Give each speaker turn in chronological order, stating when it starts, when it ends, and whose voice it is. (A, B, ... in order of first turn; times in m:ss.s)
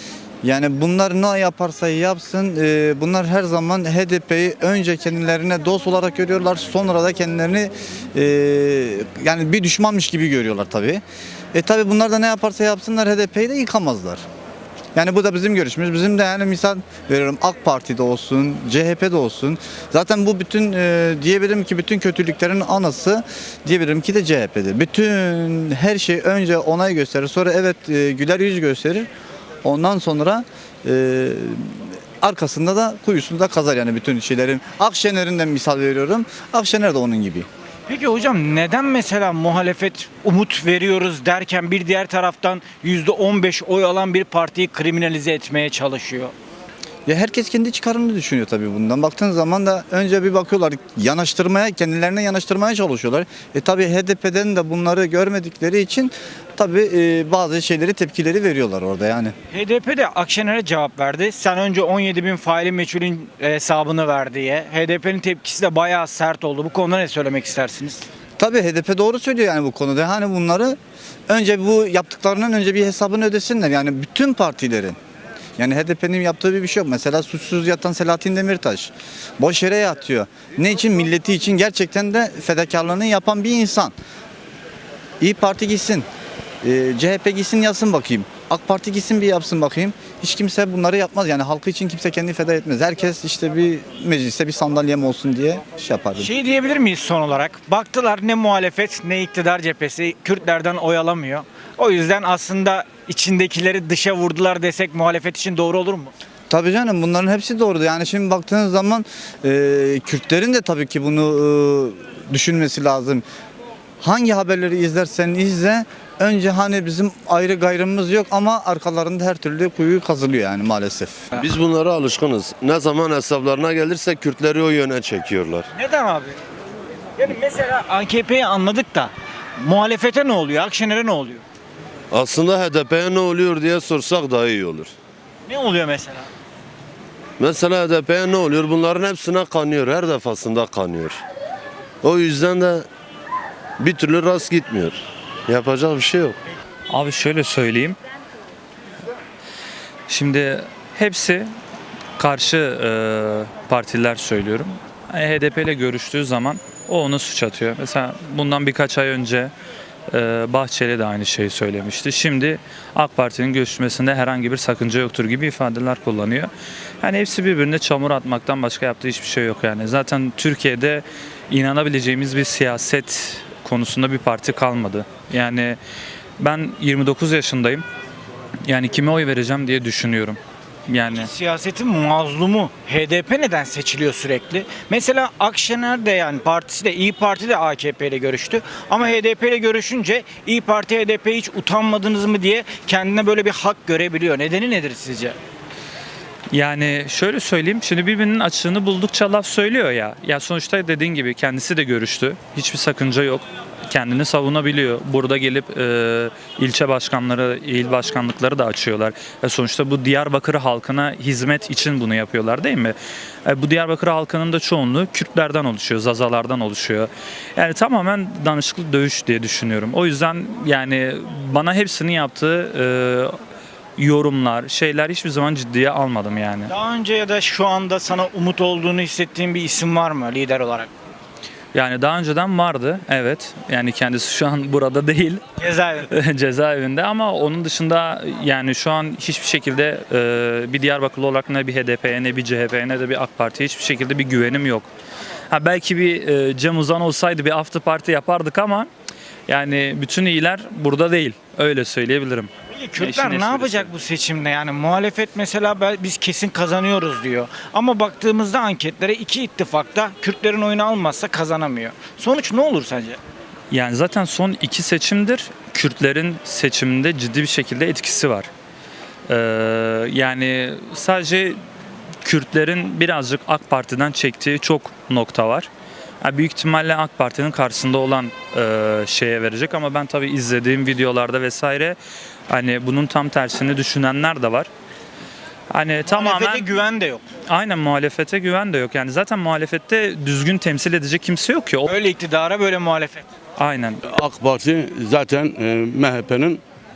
0:00.4-0:11.0 A
0:11.5-0:14.2 A
0:14.9-0:29.1 A
0:29.6-0:37.5 A
0:37.9-0:46.3 B
0:47.0-0:59.3 A
0:59.5-1:08.0 B
1:08.4-1:10.8 A
1:11.3-1:15.0 A
1:15.6-1:23.9 A
1:25.2-1:26.1 A
1:26.6-1:36.3 A
1:36.2-1:46.1 B
1:46.5-1:53.2 A
1:54.0-2:01.2 A
2:01.3-2:05.6 C
2:05.7-2:06.4 B
2:07.2-2:11.4 B
2:12.1-2:14.9 C
2:15.5-2:16.3 B
2:17.4-2:21.2 C
2:22.0-2:22.9 C
2:23.8-2:26.4 C
2:26.9-2:28.0 D
2:30.1-2:31.5 D
2:32.2-2:39.5 D
2:40.1-2:46.5 D
2:47.0-2:55.8 D
2:56.4-2:57.8 D
2:58.7-3:01.3 D
3:01.1-3:15.4 B
3:16.5-3:43.4 D
3:44.0-3:46.7 D
3:46.7-3:50.9 B
3:51.7-3:55.4 D
3:55.6-3:56.1 B
3:56.1-4:04.9 D
4:05.5-4:08.9 D
4:09.5-4:13.9 D
4:12.7-4:23.2 B
4:23.7-4:28.5 D
4:29.3-4:31.6 D
4:32.2-4:35.7 D
4:36.2-4:42.0 D
4:42.5-4:44.7 D
4:45.7-4:46.7 D
4:46.1-4:47.2 B
4:47.5-4:51.9 D
4:51.8-4:53.3 B
4:53.6-4:54.0 D
4:54.1-4:56.6 E